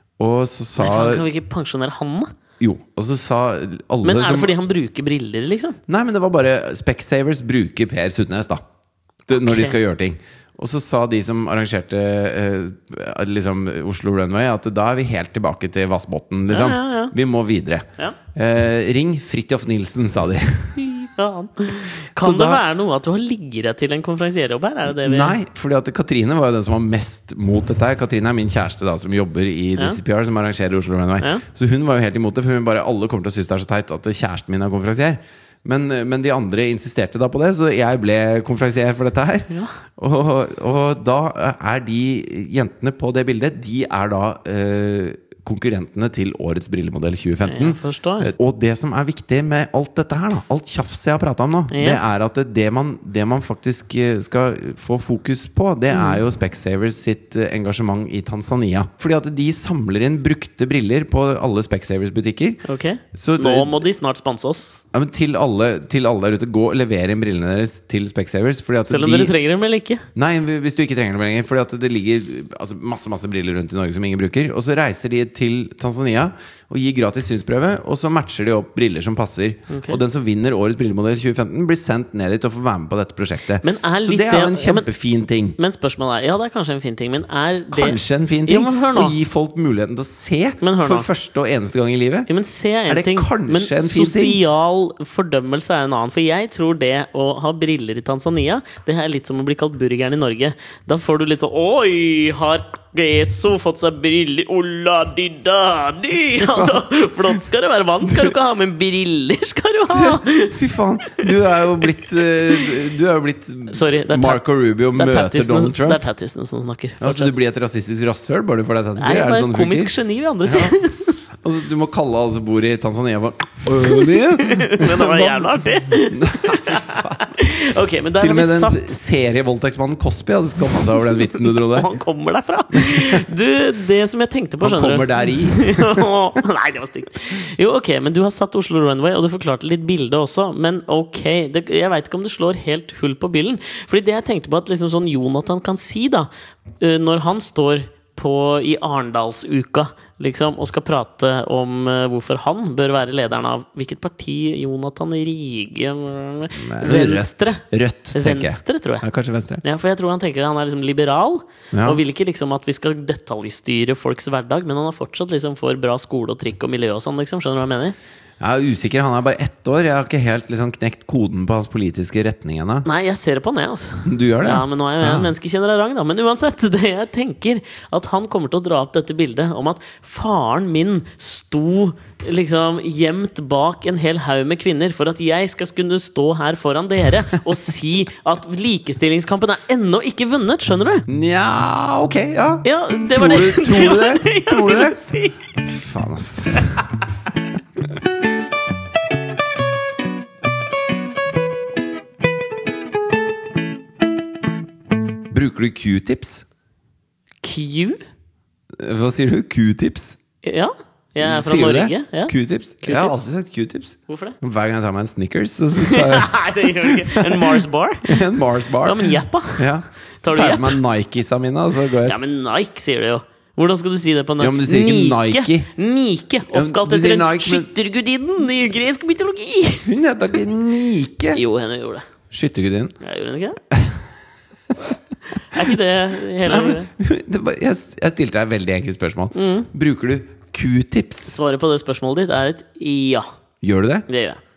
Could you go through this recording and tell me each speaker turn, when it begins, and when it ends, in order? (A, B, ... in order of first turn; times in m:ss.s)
0:00.2-0:01.2 A
0:00.8-0:02.3 B
0:02.6-0:04.5 A
0:04.0-0:05.8 B
0:05.9-0:08.6 A
0:09.3-0:20.8 A
0:09.3-0:09.8 B
0:16.5-0:17.1 B
0:20.8-0:25.4 B
0:22.1-0:22.6 A
0:24.9-1:02.6 A
0:31.2-0:31.4 B
0:39.5-0:39.8 B
0:47.4-0:48.3 B
0:51.7-0:52.0 B
0:55.9-0:56.2 B
1:02.6-1:04.8 B
1:03.1-1:03.8 A
1:04.9-1:09.3 A
1:08.9-1:10.0 B
1:10.1-1:25.6 A
1:19.7-1:20.0 B
1:23.6-1:24.9 B
1:25.6-1:29.1 B
1:27.7-1:32.3 A
1:30.6-1:31.1 B
1:32.3-1:50.6 B
1:32.9-1:34.4 A
1:46.4-1:46.8 A
1:48.0-1:48.3 A
1:49.9-1:56.0 A
1:51.2-1:52.7 B
1:53.7-1:54.4 B
1:54.9-1:57.3 B
1:57.0-1:59.9 A
1:59.0-2:01.2 B
2:00.4-2:00.8 A
2:01.4-2:07.3 A
2:03.8-2:08.9 B
2:08.2-2:11.9 A
2:11.2-2:26.3 B
2:12.7-2:13.2 A
2:14.6-2:16.1 A
2:26.8-2:37.6 B
2:36.5-2:39.6 A
2:38.1-2:39.0 B
2:39.6-2:47.9 B
2:41.7-2:42.0 A
2:48.4-2:52.8 A
2:52.8-3:11.0 B
2:54.0-2:55.3 A
3:11.1-3:15.0 A
3:12.6-3:15.4 B
3:15.6-3:17.1 A
3:25.3-3:26.4 A
3:27.4-3:28.0 B
3:28.8-3:30.2 A
3:30.4-3:33.2 B
3:31.2-3:42.2 A
3:34.1-3:34.4 B
3:35.8-3:38.2 B
3:38.8-3:39.7 B
3:40.2-3:40.8 B
3:42.0-3:49.9 B
3:44.4-3:45.7 A
3:46.5-3:47.7 A
3:49.8-3:51.4 A
3:51.3-3:52.0 B
3:52.3-3:52.9 A
3:53.0-3:53.6 B
3:53.7-3:54.1 A
3:55.4-3:56.9 B
3:56.4-4:01.4 A
3:59.3-3:59.7 B
4:01.3-4:03.3 B
4:03.6-4:04.0 A
4:04.1-4:04.4 B